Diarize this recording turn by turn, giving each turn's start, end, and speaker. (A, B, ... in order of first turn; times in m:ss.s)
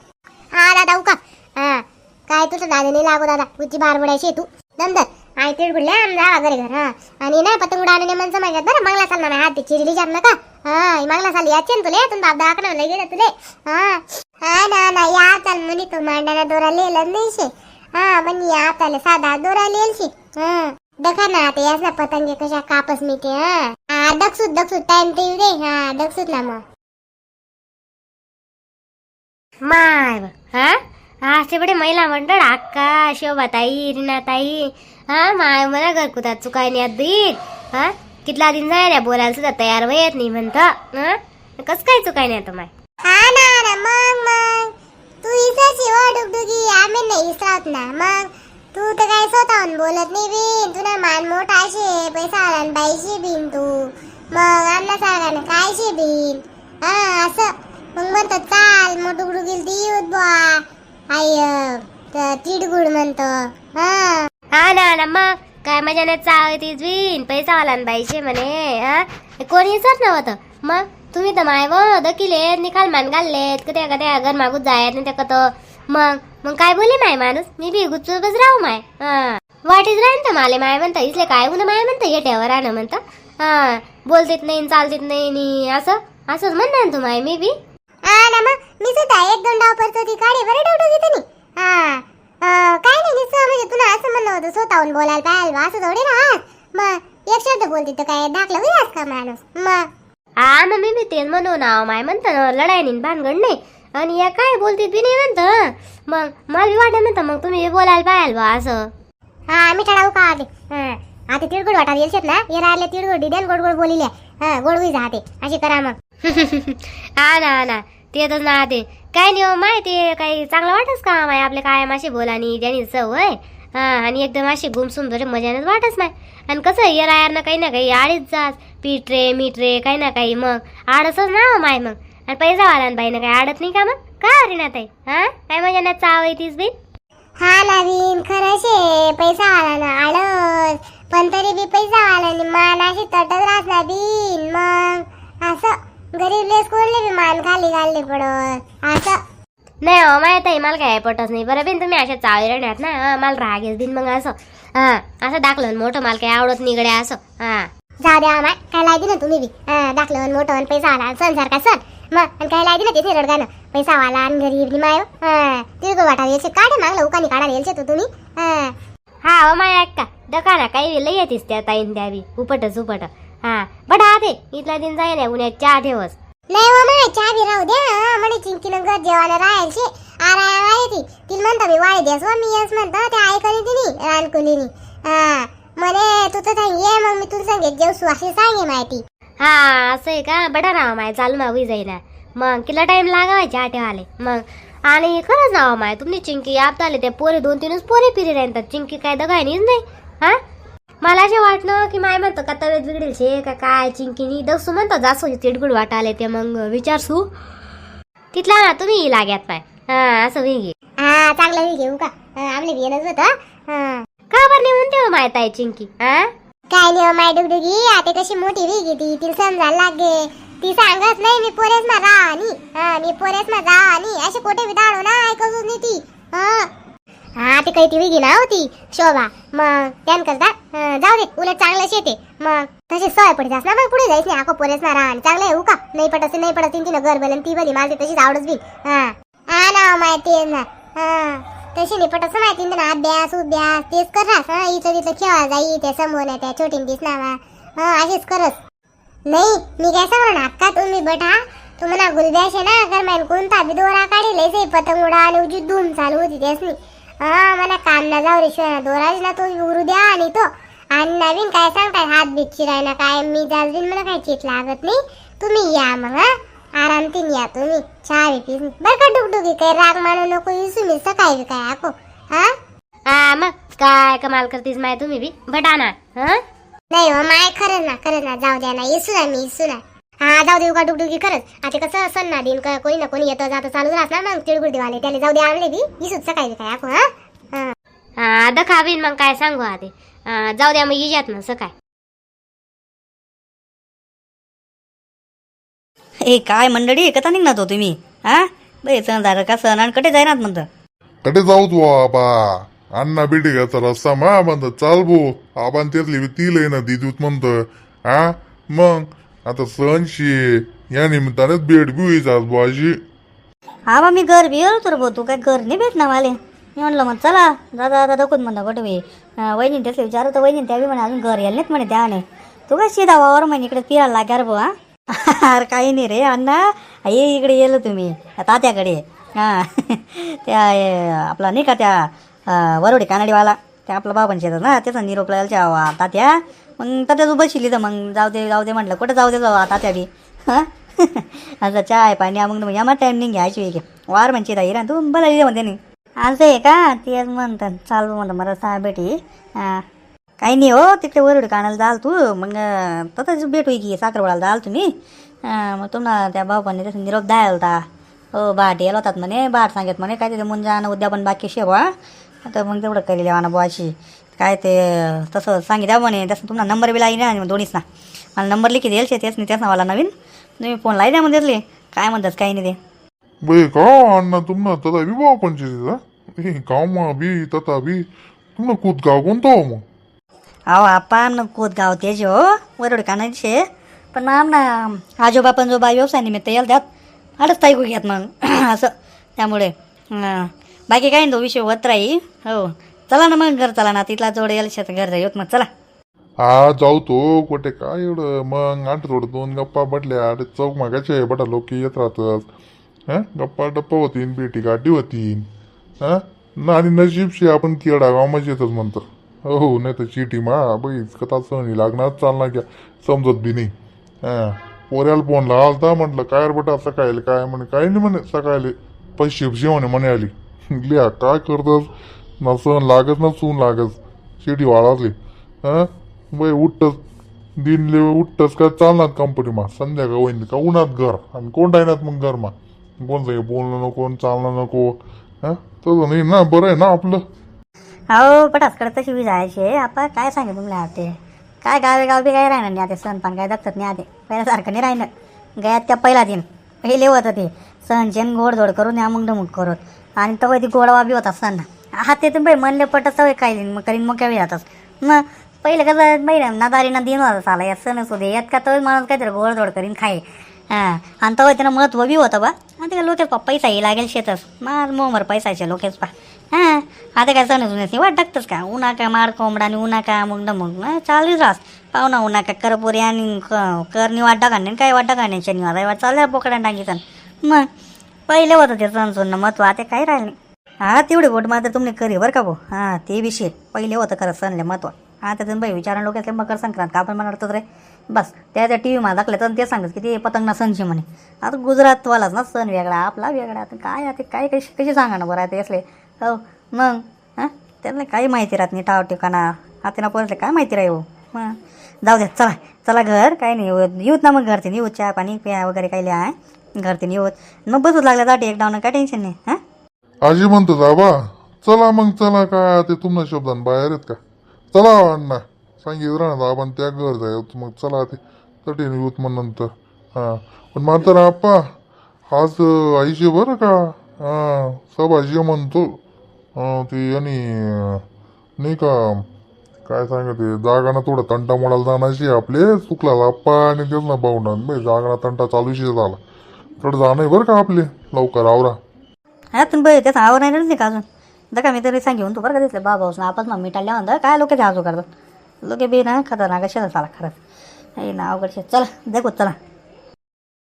0:00.6-0:26.6 A
0:29.6-0:42.7 B
0:43.1-0:44.7 A
0:45.2-0:53.7 A
0:54.3-1:00.6 A
1:01.1-1:04.3 A
1:04.5-1:27.5 B
1:28.1-1:39.8 A
1:40.4-1:48.9 B
1:49.5-1:56.0 A
1:56.2-2:16.7 B
2:17.4-2:29.2 A
2:29.8-2:37.7 B
2:38.0-2:48.7 A
2:49.2-2:56.1 B
2:56.5-3:09.0 A
3:09.4-3:20.4 B
3:21.0-3:27.2 B
3:28.3-3:30.7 B
3:31.0-3:34.0 A
3:34.3-3:36.3 B
3:36.7-3:46.7 A
3:47.4-4:08.6 A
4:09.3-4:32.5 A
4:33.1-4:36.4 B
4:36.9-4:47.7 A
4:48.2-4:51.7 B
4:56.2-5:00.7 C
5:01.2-5:13.0 D
5:13.9-5:49.8 C
5:50.4-5:54.9 C
5:55.4-5:57.8 C
5:58.3-6:01.9 C
6:02.4-6:07.8 C
6:08.4-6:12.8 C
6:13.4-6:18.0 D
6:18.6-6:19.8 D
6:20.7-6:23.6 C
6:24.1-6:26.8 C
6:27.4-6:35.7 C
6:36.4-6:42.4 D
6:43.1-6:45.4 D
6:46.0-6:53.7 D
6:54.2-7:01.9 D
7:02.4-7:07.0 D
7:07.6-7:17.2 D
7:18.1-7:57.7 C
7:58.3-8:29.6 C
8:30.2-8:34.2 D
8:34.7-8:41.7 D
8:42.3-8:45.9 D
8:46.6-8:48.0 D
8:48.6-8:49.2 D
8:49.8-8:56.2 D
8:56.8-8:58.8 D
8:59.5-9:05.0 C
9:05.6-9:07.4 C
9:08.0-9:09.6 C